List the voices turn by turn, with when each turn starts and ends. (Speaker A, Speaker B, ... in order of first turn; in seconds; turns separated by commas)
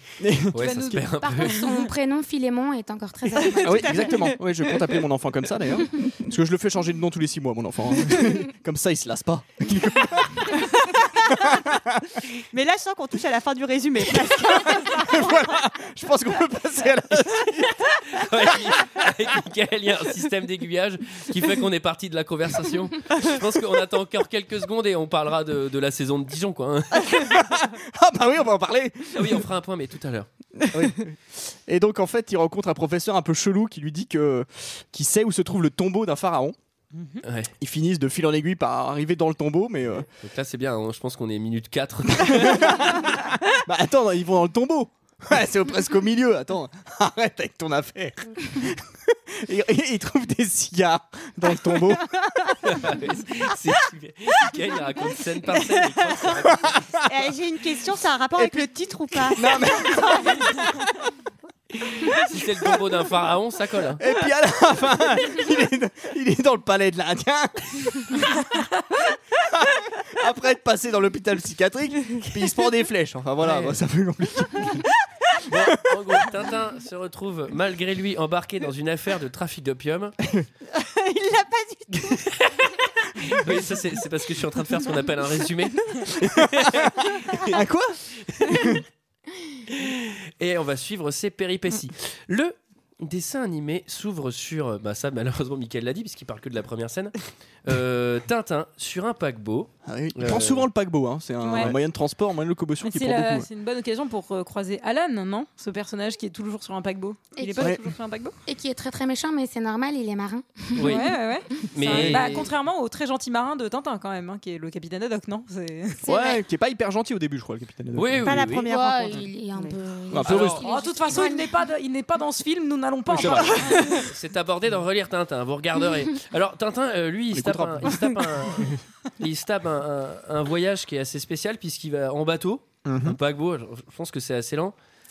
Speaker A: 0.2-0.5, Speaker B: 0.5-1.6, Speaker C: 0.6-1.9, Speaker D: 1.2-4.2, Speaker E: 3.3-4.3, Speaker A: 3.6-12.0, Speaker E: 12.5-15.5, Speaker A: 14.7-17.9, Speaker B: 18.1-27.3, Speaker A: 26.9-29.4, Speaker B: 29.1-30.3, Speaker A: 30.7-31.1, Speaker A: 31.7-36.6, Speaker B: 37.2-37.5, Speaker A: 37.6-40.1, Speaker B: 40.2-43.0, Speaker A: 42.1-52.1, Speaker B: 52.6-56.9, Speaker E: 57.0-60.5, Speaker A: 59.3-61.1, Speaker B: 62.0-64.0, Speaker A: 64.0-68.3, Speaker A: 69.4-74.8, Speaker B: 73.4-73.8, Speaker B: 75.4-80.2, Speaker E: 80.7-82.2, Speaker B: 82.3-82.7, Speaker B: 83.2-87.5, Speaker A: 87.5-88.8, Speaker B: 88.3-88.8, Speaker B: 89.7-100.7, Speaker A: 99.8-103.5, Speaker C: 101.4-101.7, Speaker C: 102.8-108.3, Speaker D: 107.4-107.7, Speaker D: 108.5-111.0, Speaker B: 110.8-111.0, Speaker C: 110.8-116.0, Speaker B: 111.7-112.4, Speaker A: 111.9-112.4, Speaker D: 116.0-116.4, Speaker A: 116.0-118.4, Speaker B: 117.9-118.7, Speaker E: 118.2-119.8, Speaker D: 118.6-121.5, Speaker A: 120.1-120.6, Speaker B: 120.2-120.6, Speaker C: 120.6-124.0, Speaker A: 123.1-123.6, Speaker B: 123.2-134.7, Speaker A: 127.3-128.8, Speaker A: 132.8-133.2